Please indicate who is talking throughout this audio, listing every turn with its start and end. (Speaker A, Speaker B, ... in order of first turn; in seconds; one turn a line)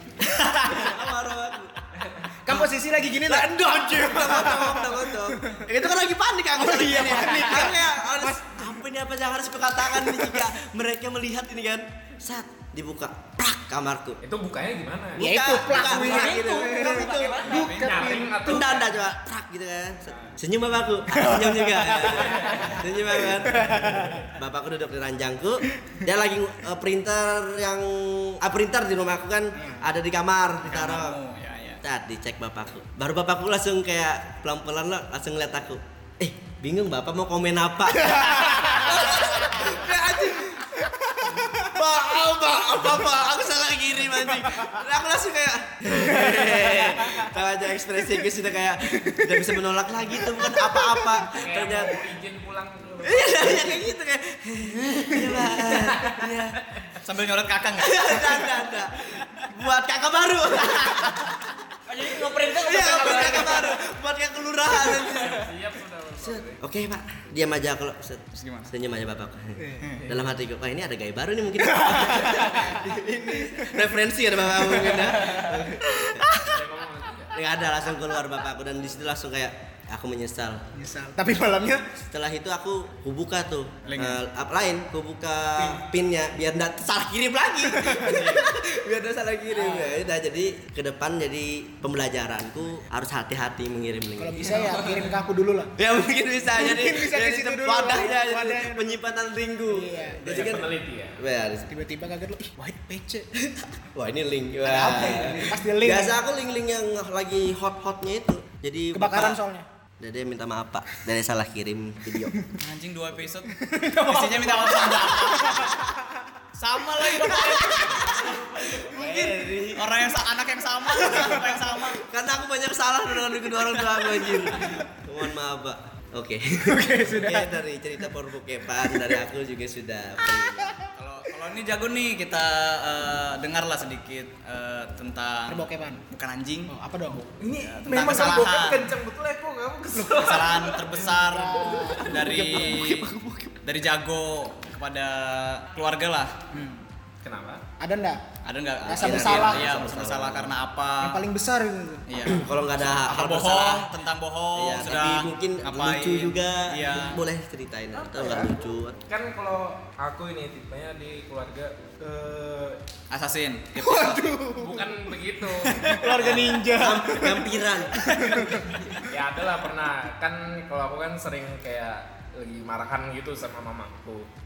Speaker A: 0.2-2.7
Speaker B: 0.6-0.9
Speaker B: 2.4-5.6
Speaker A: 3.2-14.2
Speaker B: 6.6-8.7
Speaker C: 14.2-15.3
Speaker A: 15.2-17.5
Speaker B: 15.2-18.3
Speaker D: 15.5-17.9
Speaker E: 17.4-18.2
Speaker C: 17.5-18.9
Speaker A: 18.4-31.2
Speaker C: 20.1-20.3
Speaker B: 21.2-24.3
Speaker C: 22.3-22.7
Speaker B: 29.6-29.8
Speaker E: 30.7-31.8
Speaker A: 31.8-52.0
Speaker B: 38.1-39.9
Speaker B: 41.2-41.7
Speaker B: 46.1-47.1
Speaker B: 49.0-49.4
Speaker B: 50.5-51.0
Speaker C: 51.3-53.7
Speaker A: 53.0-56.7
Speaker E: 57.0-58.5
Speaker A: 57.8-61.4
Speaker D: 61.9-63.8
Speaker A: 62.5-65.5
Speaker C: 64.7-66.6
Speaker A: 66.2-76.3
Speaker E: 68.3-68.7
Speaker B: 69.6-70.0
Speaker B: 71.7-73.8
Speaker B: 74.6-76.5
Speaker C: 76.4-77.4
Speaker A: 77.3-80.6
Speaker B: 80.7-81.9
Speaker A: 82.0-95.0
Speaker E: 83.9-84.2
Speaker E: 88.0-88.5
Speaker B: 89.6-90.0
Speaker B: 94.2-95.7
Speaker A: 95.8-101.7
Speaker B: 96.6-99.0
Speaker B: 99.7-100.4
Speaker C: 100.2-101.2
Speaker B: 101.7-103.3
Speaker A: 103.5-109.4
Speaker B: 104.6-106.2
Speaker B: 108.9-109.7
Speaker A: 110.0-112.3
Speaker E: 112.6-115.8
Speaker B: 113.6-116.2
Speaker E: 116.6-122.0
Speaker A: 117.3-120.0
Speaker A: 121.0-130.7
Speaker B: 126.7-127.5
Speaker E: 130.9-136.7
Speaker B: 135.5-136.0
Speaker B: 136.7-137.3
Speaker C: 137.3-140.9
Speaker E: 137.7-138.9
Speaker E: 140.1-143.1
Speaker B: 141.0-142.3
Speaker A: 141.8-143.6
Speaker E: 143.6-146.3
Speaker B: 146.5-146.8
Speaker C: 147.2-147.6
Speaker B: 147.8-148.2
Speaker E: 148.4-151.2
Speaker A: 148.8-150.5
Speaker B: 148.9-149.7
Speaker B: 151.0-152.0
Speaker E: 152.1-157.2
Speaker A: 152.3-153.9
Speaker A: 154.6-159.0
Speaker D: 158.2-158.5
Speaker C: 159.1-162.8
Speaker E: 163.1-164.4
Speaker B: 163.8-165.1
Speaker C: 164.6-166.1
Speaker B: 165.7-167.6
Speaker E: 166.0-166.6
Speaker A: 166.2-168.1
Speaker B: 168.2-168.9
Speaker E: 168.3-168.5
Speaker C: 169.0-174.3